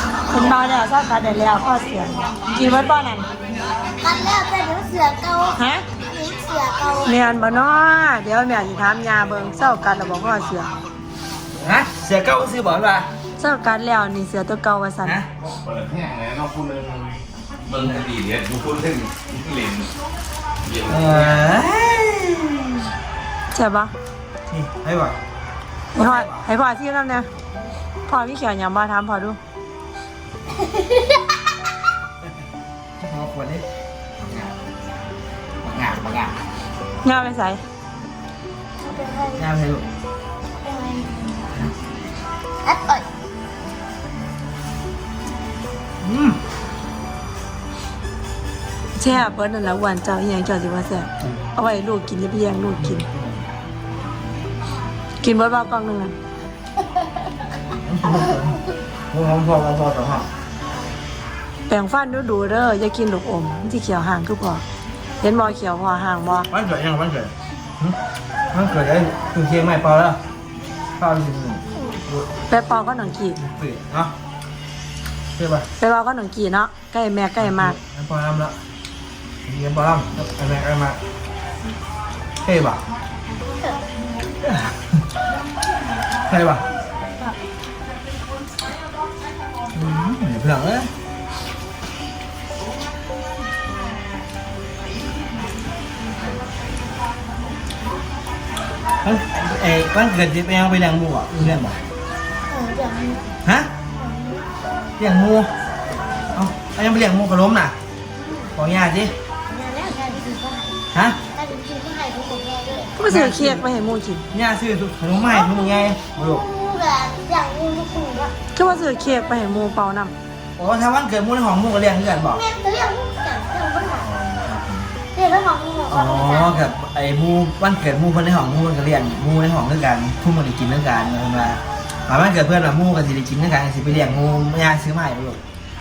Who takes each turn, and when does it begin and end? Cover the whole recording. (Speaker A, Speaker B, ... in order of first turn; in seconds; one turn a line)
Speaker A: 0.3-3.3
Speaker B: 4.0-7.2
Speaker A: 5.6-5.8
Speaker A: 7.0-10.7
Speaker C: 11.6-13.1
Speaker A: 13.4-15.2
Speaker D: 15.5-19.9
Speaker D: 20.6-21.4
Speaker C: 20.9-22.8
Speaker A: 23.5-23.9
Speaker C: 24.5-25.2
Speaker A: 25.9-27.3
Speaker C: 26.0-26.5
Speaker A: 28.1-29.4
Speaker B: 30.6-31.2
Speaker C: 33.0-33.6
Speaker C: 34.2-34.5
Speaker C: 35.6-36.4
Speaker A: 37.0-37.6
Speaker B: 38.8-39.4
Speaker C: 39.4-39.9
Speaker B: 40.6-41.6
Speaker B: 42.6-43.1
Speaker C: 46.0-46.4
Speaker A: 49.0-53.0
Speaker C: 52.8-53.4
Speaker A: 55.2-56.1
Speaker C: 57.9-58.6
Speaker C: 59.1-60.3
Speaker A: 61.7-64.6
Speaker A: 65.2-66.5
Speaker C: 66.4-68.0
Speaker C: 68.5-70.2
Speaker C: 71.0-72.3
Speaker A: 72.5-73.4
Speaker C: 73.4-74.1
Speaker C: 75.4-75.7
Speaker A: 75.8-77.8
Speaker C: 77.4-78.6
Speaker C: 79.5-81.0
Speaker C: 82.4-82.8
Speaker C: 84.4-84.8
Speaker C: 86.3-86.6
Speaker C: 89.7-90.9
Speaker C: 99.0-101.8
Speaker B: 102.5-103.3
Speaker C: 103.4-103.7
Speaker B: 104.0-104.5
Speaker C: 105.0-105.5
Speaker C: 106.3-107.8
Speaker B: 108.2-108.5
Speaker C: 108.5-109.1
Speaker B: 109.5-110.8
Speaker C: 110.9-111.2
Speaker B: 111.3-113.0
Speaker A: 113.0-114.3
Speaker C: 113.1-113.7
Speaker C: 114.3-116.5
Speaker B: 115.3-115.8
Speaker B: 116.3-118.3
Speaker A: 118.5-120.1
Speaker B: 118.9-119.7
Speaker C: 120.6-122.4
Speaker B: 122.3-124.1
Speaker C: 124.0-124.9
Speaker B: 125.1-126.5
Speaker C: 125.9-135.4